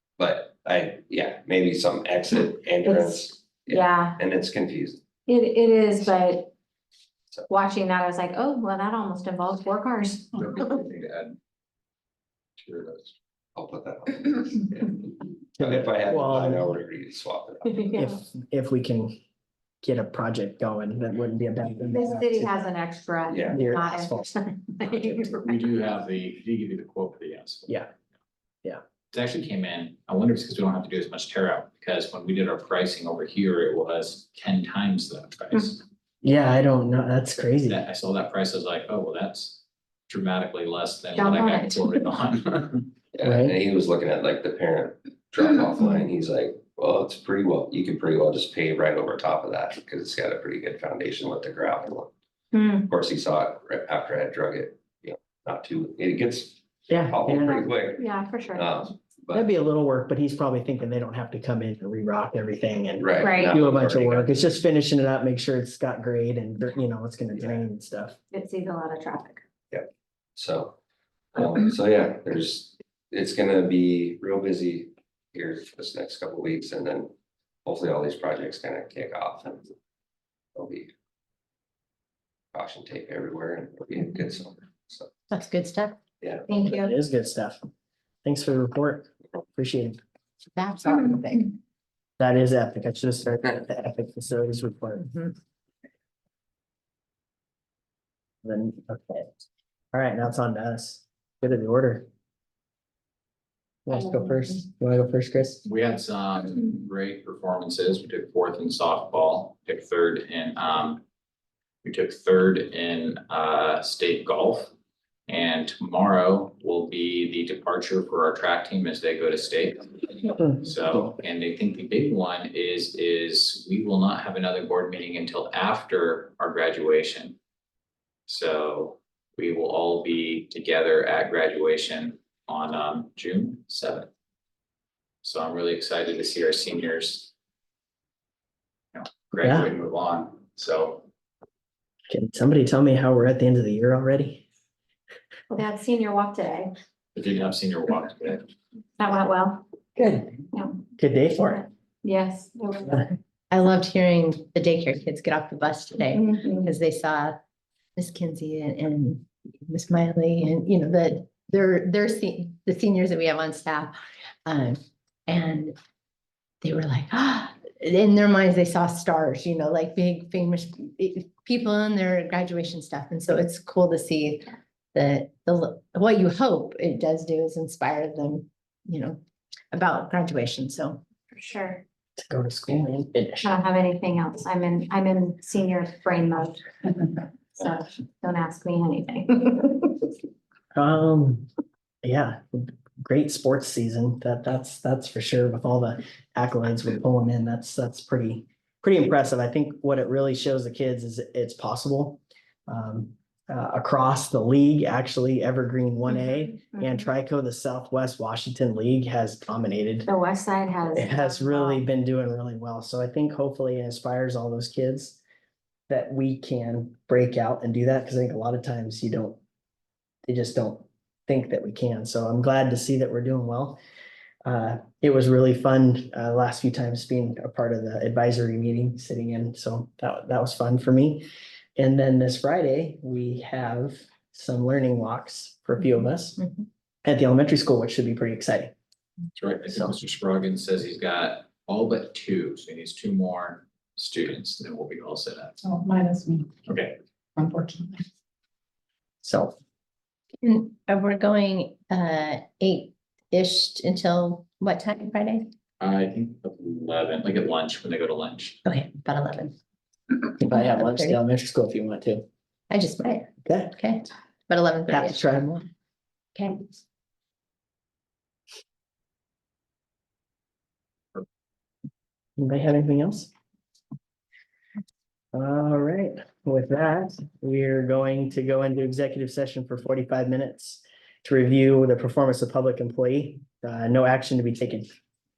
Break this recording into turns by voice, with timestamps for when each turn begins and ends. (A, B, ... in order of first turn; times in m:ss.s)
0:00.2-0:05.0 A
0:02.8-0:04.2 B
0:05.2-0:06.5 B
0:07.5-0:10.4 B
0:10.3-0:11.4 C
0:12.6-0:13.0 C
0:13.5-0:17.8 A
0:15.6-0:16.6 D
0:17.6-0:18.2 B
0:18.0-0:19.2 D
0:19.8-0:22.5 D
0:21.9-0:25.6 B
0:23.3-0:23.6 A
0:23.5-0:24.3 D
0:25.4-0:27.7 C
0:29.1-0:35.8 C
0:36.2-0:37.8 D
0:37.7-0:42.9 C
0:41.2-0:42.0 B
0:43.1-0:52.1 A
0:43.2-0:43.6 D
0:52.5-0:52.9 B
0:52.8-0:59.5 A
0:56.9-0:57.7 D
0:58.0-0:58.7 B
0:59.3-1:08.2 D
1:03.0-1:04.6 A
1:03.2-1:03.6 B
1:08.3-1:09.4 B
1:09.7-1:10.8 A
1:11.3-1:17.1 A
1:17.6-1:19.7 A
1:20.5-1:20.9 A
1:22.5-1:25.1 A
1:25.3-1:26.0 E
1:26.2-1:26.4 A
1:26.5-1:26.9 B
1:26.6-1:27.7 D
1:28.2-1:30.0 D
1:30.6-1:31.5 E
1:32.2-1:35.1 D
1:38.4-1:39.3 D
1:39.9-1:42.1 D
1:43.8-1:45.6 D
1:45.6-1:51.0 C
1:51.8-1:54.7 C
1:55.3-2:07.4 C
2:00.4-2:01.2 D
2:08.3-2:14.1 C
2:15.2-2:17.3 C
2:18.9-2:21.0 C
2:19.4-2:19.7 D
2:22.1-2:24.4 D
2:25.5-2:26.7 B
2:27.1-2:28.4 C
2:29.0-2:29.6 B
2:30.0-2:30.3 D
2:30.5-2:30.8 B
2:31.0-2:31.6 D
2:32.0-2:33.0 B
2:33.5-2:37.4 E
2:36.1-2:36.7 B
2:38.0-2:45.7 E
2:46.6-2:59.2 E
2:59.7-3:01.0 E
3:01.3-3:01.8 B
3:02.2-3:03.5 D
3:03.4-3:10.1 B
3:10.7-3:11.5 D
3:12.0-3:30.1 D
3:26.1-3:27.1 B
3:30.0-3:31.8 B
3:30.9-3:35.2 D
3:35.9-3:39.4 D
3:40.2-3:43.8 D
3:44.4-3:51.2 D
3:51.8-3:56.4 D
3:57.0-3:58.7 D
3:59.3-4:05.6 C
4:06.6-4:07.0 C
4:09.2-4:09.6 D
4:10.4-4:15.5 E
4:15.8-4:18.6 C
4:18.6-4:19.5 E
4:20.4-4:22.2 D
4:20.5-4:21.2 E
4:22.7-4:25.2 E
4:23.4-4:23.7 D
4:24.9-4:25.7 D
4:26.3-4:26.6 E
4:32.4-4:33.3 D
4:35.3-4:44.9 D